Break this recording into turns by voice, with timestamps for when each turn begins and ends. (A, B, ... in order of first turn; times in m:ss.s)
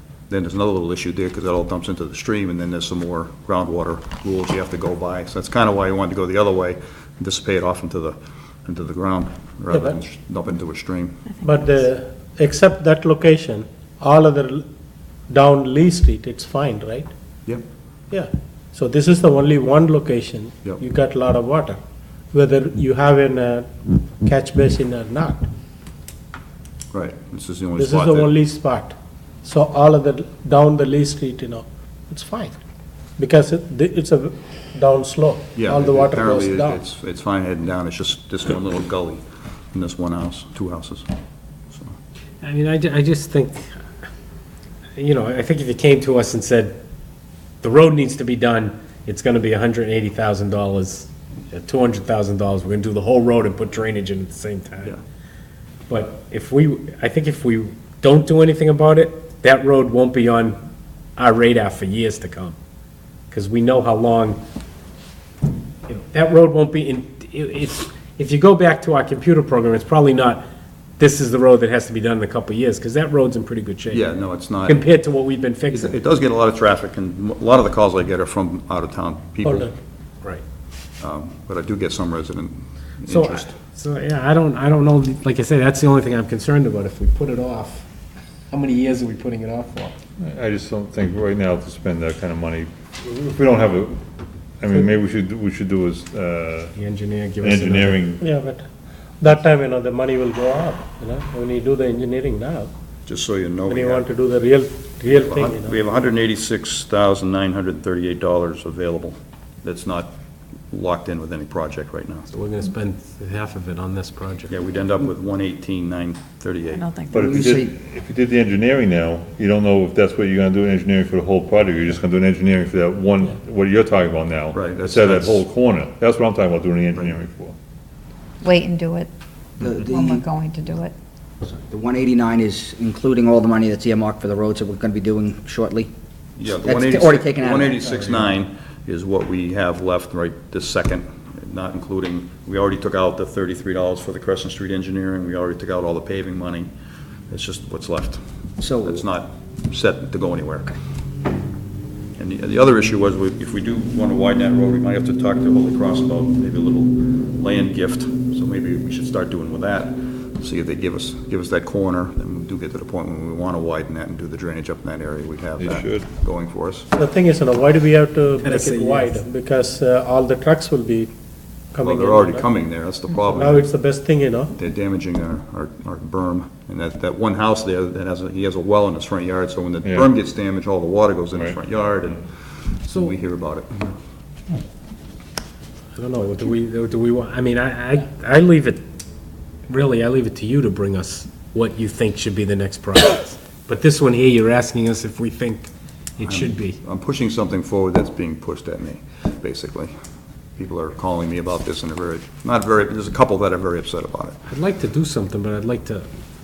0:00.3-0:11.2 A
0:09.7-0:10.0 B
0:11.4-0:14.6 B
0:15.3-0:17.1 B
0:18.1-0:21.8 B
0:22.3-0:23.7 B
0:24.2-0:25.4 B
0:26.9-0:28.3 A
0:27.8-0:32.5 B
0:33.2-0:36.8 B
0:35.5-0:41.1 A
0:42.4-0:43.8 C
0:45.0-0:46.8 C
0:47.6-0:54.9 C
0:55.9-1:00.6 C
1:01.2-1:02.6 C
1:03.3-1:04.4 C
1:05.9-1:10.4 C
1:11.0-1:16.0 C
1:13.9-1:14.9 A
1:15.7-1:19.7 A
1:19.4-1:19.7 B
1:21.0-1:23.5 A
1:23.1-1:27.9 C
1:28.5-1:29.9 C
1:30.2-1:34.0 D
1:34.6-1:36.7 D
1:36.8-1:38.0 C
1:37.4-1:38.2 D
1:38.2-1:38.6 B
1:39.2-1:42.7 B
1:43.0-1:44.0 A
1:43.7-1:45.8 B
1:45.0-1:50.1 A
1:50.7-1:52.3 A
1:52.3-1:54.5 C
1:54.5-1:56.9 A
1:56.7-1:57.2 E
1:57.1-2:07.5 D
1:57.1-1:57.7 F
2:04.5-2:05.4 A
2:08.4-2:09.1 E
2:09.6-2:10.2 F
2:09.8-2:10.9 E
2:11.4-2:15.9 F
2:16.4-2:26.7 A
2:16.6-2:17.8 F
2:27.3-2:28.2 A
2:28.6-2:29.0 F
2:28.8-2:30.7 A
2:32.2-2:46.9 A
2:45.6-2:46.1 D
2:47.0-2:51.1 B
2:48.4-2:49.2 C
2:51.7-2:52.5 B
2:51.8-2:53.7 A
2:53.3-2:54.5 B
2:54.6-3:03.9 A
2:59.8-3:00.1 D
3:05.9-3:08.8 C
3:09.7-3:16.8 C
3:16.2-3:19.9 A
3:20.6-3:24.4 A
3:24.5-3:26.1 C